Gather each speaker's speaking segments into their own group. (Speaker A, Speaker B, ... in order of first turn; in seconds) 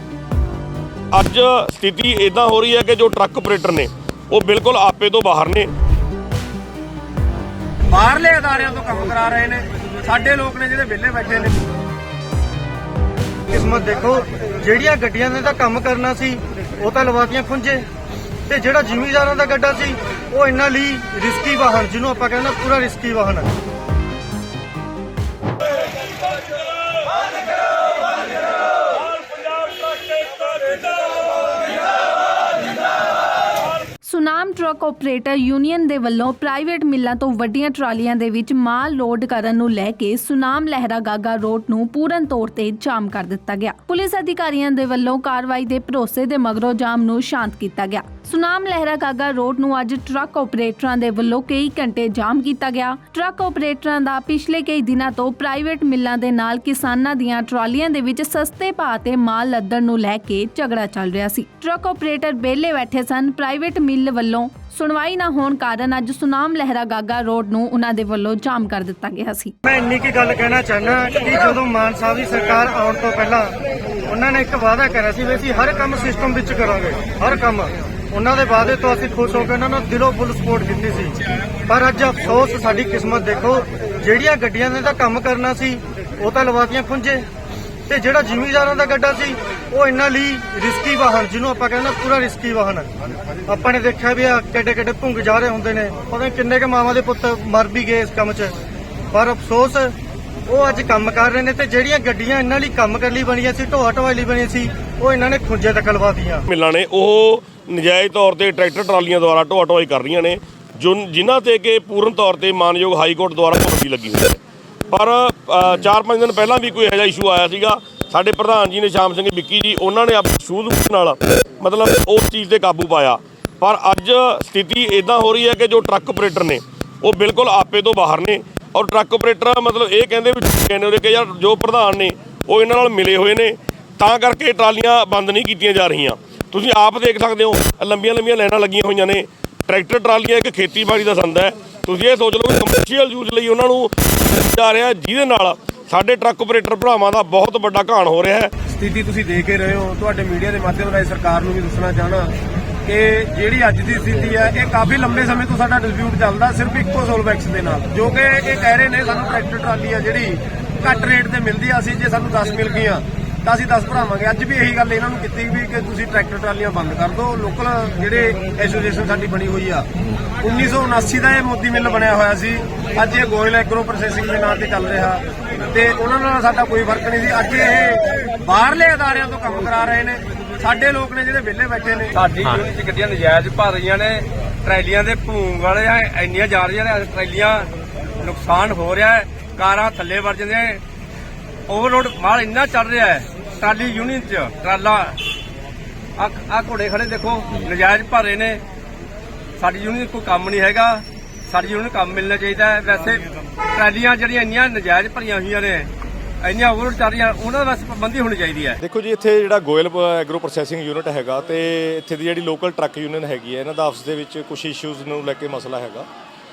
Speaker A: 1.1-5.7, 106.5-114.4, 114.9-148.5
Speaker B: 7.9-11.5, 148.7-152.3, 152.8-169.8, 170.4-182.1
Speaker C: 13.5-17.8, 18.5-23.5, 69.6-73.5, 74.1-81.2, 81.7-87.2, 87.9-92.9, 93.5-98.5, 99.1-99.9, 100.5-106.5
Speaker D: 34.0-69.5
Speaker E: 182.1-187.7, 188.2-190.8, 191.7-195.2, 196.2-198.6, 199.6-205.9, 206.4-208.8
Speaker F: 208.8-216.1